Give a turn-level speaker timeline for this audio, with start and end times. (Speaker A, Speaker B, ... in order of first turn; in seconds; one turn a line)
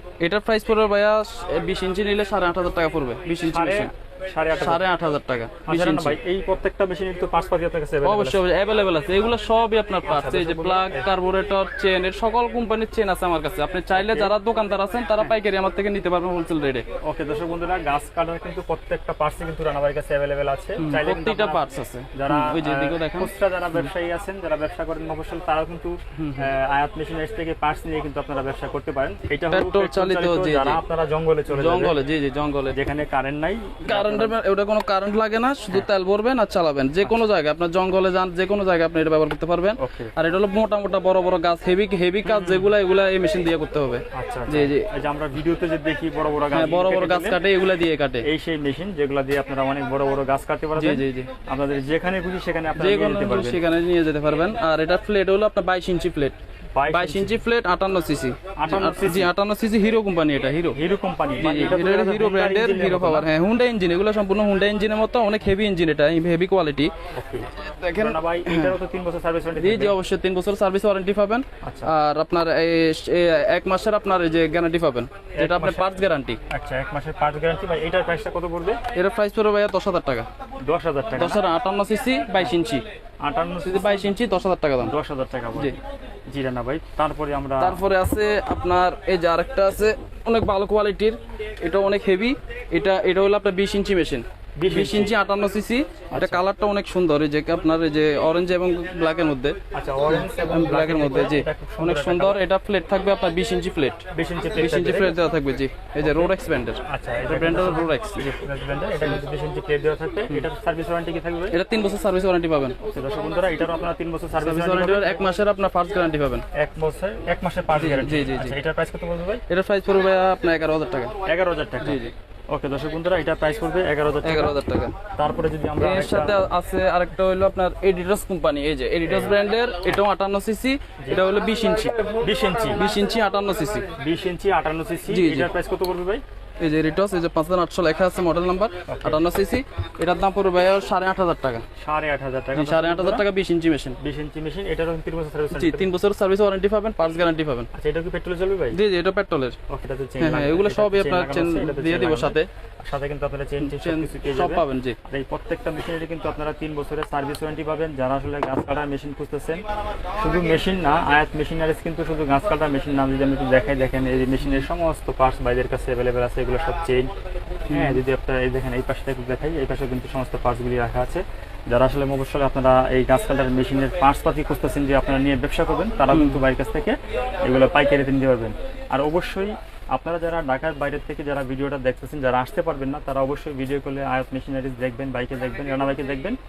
Speaker A: 0.2-3.9
Speaker B: 3.4-4.8
Speaker A: 4.6-6.2
Speaker B: 5.7-8.4
Speaker A: 8.0-16.9
Speaker B: 10.1-11.1
Speaker B: 13.9-14.3
Speaker B: 17.0-32.0
Speaker A: 20.8-23.9
Speaker A: 26.2-26.5
Speaker A: 29.5-30.8
Speaker A: 31.5-32.8
Speaker B: 32.7-34.4
Speaker A: 33.9-44.9
Speaker B: 39.8-40.1
Speaker B: 42.2-42.7
Speaker B: 44.1-47.4
Speaker A: 46.5-48.2
Speaker B: 48.2-53.6
Speaker A: 50.8-51.3
Speaker A: 52.8-56.4
Speaker B: 56.8-57.4
Speaker A: 56.9-60.8
Speaker B: 58.6-59.3
Speaker B: 60.7-63.3
Speaker A: 61.4-66.9
Speaker B: 67.1-70.0
Speaker A: 67.6-68.7
Speaker A: 69.6-76.4
Speaker B: 71.6-71.9
Speaker B: 75.3-78.8
Speaker A: 78.9-80.3
Speaker B: 80.6-81.4
Speaker A: 81.2-82.8
Speaker B: 83.2-84.1
Speaker A: 83.6-84.9
Speaker B: 84.8-85.8
Speaker B: 86.3-87.8
Speaker A: 87.6-99.6
Speaker B: 94.6-95.2
Speaker B: 96.1-96.4
Speaker B: 99.7-102.4
Speaker A: 100.1-104.0
Speaker B: 104.1-105.2
Speaker A: 104.6-108.3
Speaker B: 106.0-106.3
Speaker B: 106.8-111.6
Speaker A: 111.5-112.8
Speaker B: 112.8-115.3
Speaker A: 114.4-116.4
Speaker B: 116.5-119.4
Speaker A: 117.7-118.6
Speaker A: 119.5-121.1
Speaker B: 121.2-126.5
Speaker A: 121.8-122.1
Speaker A: 124.2-125.0
Speaker A: 125.8-132.0
Speaker B: 129.1-130.0
Speaker B: 132.1-132.8
Speaker A: 132.7-133.9
Speaker B: 133.9-136.2
Speaker A: 135.1-135.5
Speaker A: 136.6-141.7
Speaker B: 138.9-139.2
Speaker B: 141.8-143.2
Speaker A: 142.6-144.0
Speaker B: 144.0-145.9
Speaker A: 145.5-147.7
Speaker B: 147.7-148.8
Speaker A: 148.7-149.6
Speaker B: 149.7-159.6
Speaker A: 150.2-152.5
Speaker A: 153.6-155.0
Speaker B: 160.2-167.1
Speaker A: 167.7-168.0
Speaker B: 167.7-186.4
Speaker A: 176.1-176.4